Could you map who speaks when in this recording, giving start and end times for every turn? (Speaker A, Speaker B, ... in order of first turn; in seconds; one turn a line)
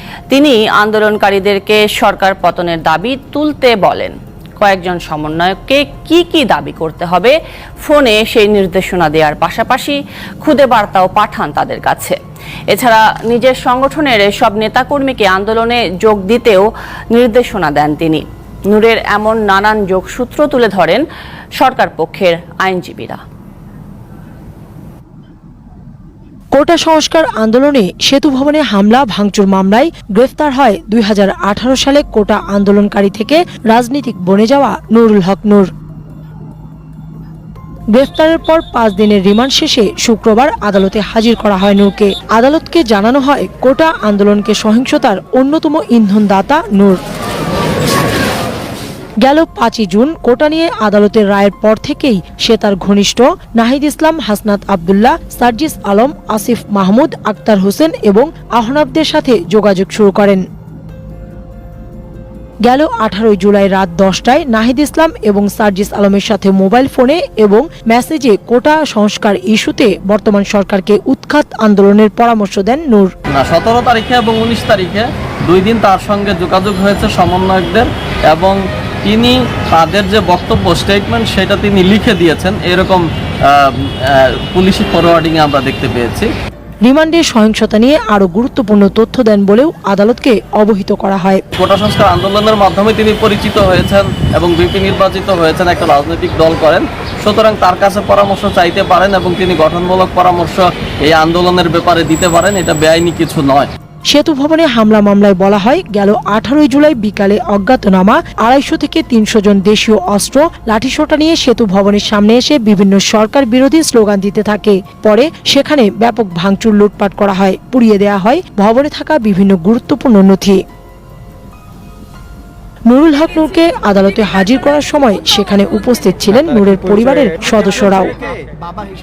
Speaker A: 0.3-12.2
Speaker A: 12.7-21.0
Speaker A: 21.6-23.2
Speaker B: 26.5-35.7
Speaker B: 37.9-47.0
Speaker B: 49.2-60.4
Speaker B: 62.6-73.1
Speaker C: 73.3-86.3
Speaker B: 86.8-91.4
Speaker C: 91.6-103.7
Speaker B: 104.1-120.6
Speaker B: 122.9-128.1